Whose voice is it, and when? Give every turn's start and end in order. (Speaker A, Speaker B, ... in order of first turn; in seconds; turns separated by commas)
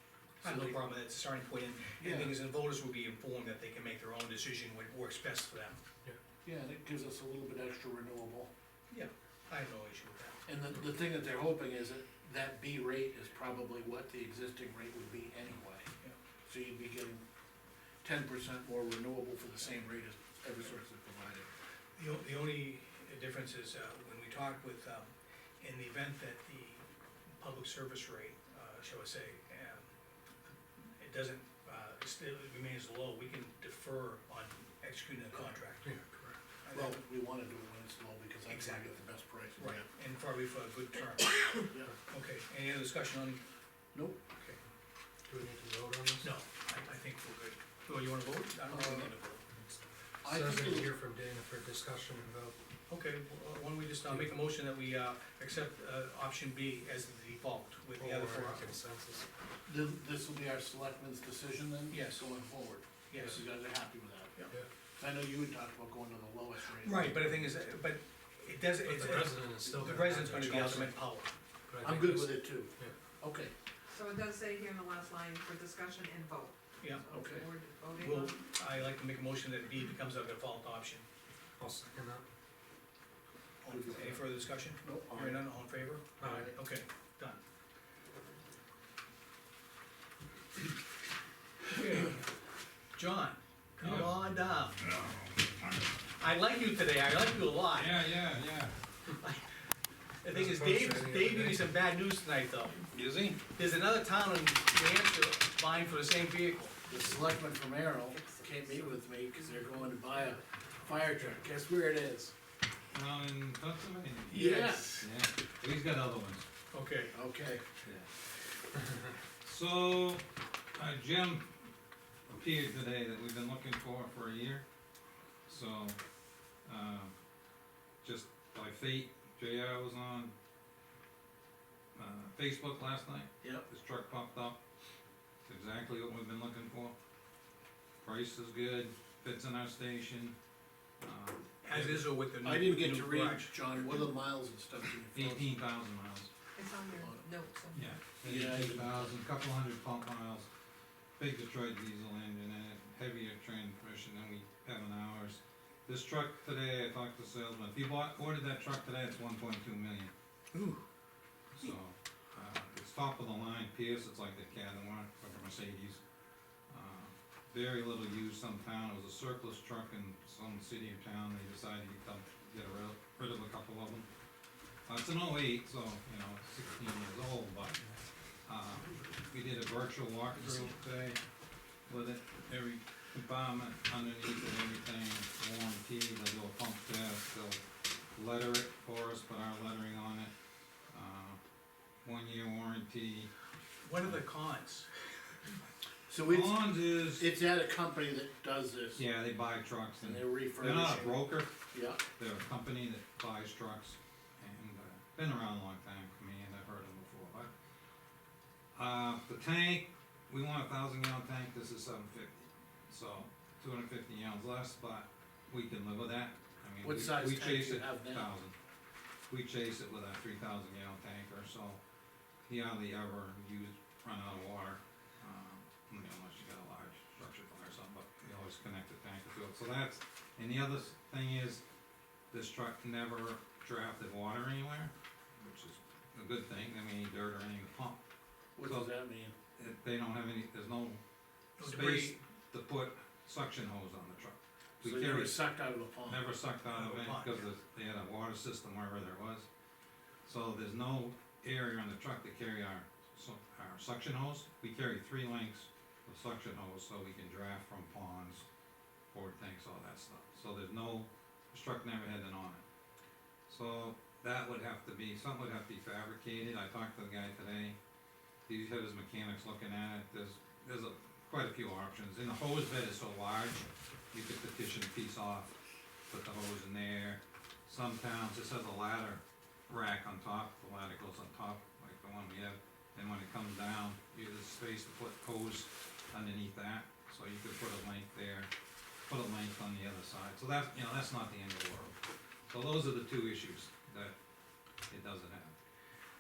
Speaker A: 0.4-5.8, Speaker B: 0.4-0.8, Speaker B: 2.0-2.3, Speaker B: 6.4-8.5, Speaker A: 8.9-10.4, Speaker B: 10.5-15.9, Speaker B: 16.5-17.2, Speaker B: 18.0-21.5, Speaker A: 22.0-26.9, Speaker A: 27.4-29.9, Speaker A: 31.0-35.9, Speaker C: 35.8-36.4, Speaker A: 36.6-37.0, Speaker B: 36.7-39.9, Speaker A: 38.5-39.0, Speaker A: 39.5-43.4, Speaker B: 43.9-44.2, Speaker C: 45.3-46.3, Speaker A: 46.2-49.4, Speaker B: 48.7-49.1, Speaker C: 49.5-52.6, Speaker B: 50.2-50.9, Speaker A: 52.9-58.6, Speaker C: 58.0-59.3, Speaker B: 59.7-64.3, Speaker A: 61.9-62.2, Speaker A: 63.1-63.4, Speaker B: 65.0-67.4, Speaker A: 66.8-71.3, Speaker C: 68.8-71.0, Speaker C: 71.7-72.9, Speaker B: 71.8-73.5, Speaker D: 73.9-78.4, Speaker A: 76.8-77.0, Speaker B: 77.1-77.5, Speaker A: 78.0-81.0, Speaker C: 81.6-82.2, Speaker A: 83.6-87.4, Speaker B: 83.7-84.2, Speaker B: 84.8-85.5, Speaker B: 86.2-86.5, Speaker C: 86.2-86.5, Speaker A: 91.7-92.2, Speaker A: 92.9-94.8, Speaker E: 93.8-94.2, Speaker E: 94.8-96.0, Speaker A: 96.2-98.0, Speaker E: 97.7-98.8, Speaker A: 99.2-99.5, Speaker A: 100.2-102.9, Speaker C: 100.3-101.7, Speaker E: 102.9-103.4, Speaker A: 103.4-106.8, Speaker B: 106.9-112.3, Speaker D: 108.1-109.9, Speaker E: 112.9-116.4, Speaker A: 114.3-115.0, Speaker B: 114.3-115.1, Speaker A: 116.7-117.1, Speaker B: 117.1-117.6, Speaker E: 117.8-118.1, Speaker E: 119.4-121.6, Speaker E: 122.3-124.7, Speaker E: 125.5-126.0, Speaker E: 126.7-127.1, Speaker E: 128.0-130.3, Speaker E: 131.9-134.6, Speaker E: 135.4-136.9, Speaker E: 138.0-140.3, Speaker E: 141.0-142.0, Speaker A: 141.6-143.5, Speaker B: 142.4-145.6, Speaker E: 145.1-146.3, Speaker D: 146.6-148.0, Speaker E: 147.7-150.5, Speaker B: 148.2-149.1, Speaker E: 151.2-160.1, Speaker A: 160.5-160.8, Speaker E: 161.5-166.0, Speaker E: 166.7-174.1, Speaker E: 174.8-177.8, Speaker E: 178.4-181.2, Speaker E: 181.8-187.6, Speaker E: 188.1-190.3, Speaker E: 190.9-191.4, Speaker E: 192.0-193.3, Speaker A: 193.8-194.9, Speaker B: 196.1-199.0, Speaker E: 196.2-197.2, Speaker E: 198.9-201.5, Speaker B: 200.0-201.2, Speaker B: 201.7-202.0, Speaker E: 202.2-207.5, Speaker E: 208.8-218.5, Speaker B: 216.8-218.3, Speaker E: 219.3-221.8, Speaker E: 222.5-231.6, Speaker E: 232.3-238.0, Speaker B: 238.6-239.3, Speaker E: 238.6-238.9, Speaker E: 239.6-241.0, Speaker A: 241.6-242.2, Speaker E: 241.6-245.4, Speaker B: 244.8-246.2, Speaker E: 246.0-249.5, Speaker A: 246.7-247.5, Speaker E: 250.2-258.4, Speaker E: 259.1-262.6, Speaker E: 263.5-267.8, Speaker E: 268.5-275.6, Speaker E: 276.1-288.5, Speaker E: 289.1-294.1, Speaker E: 294.9-295.6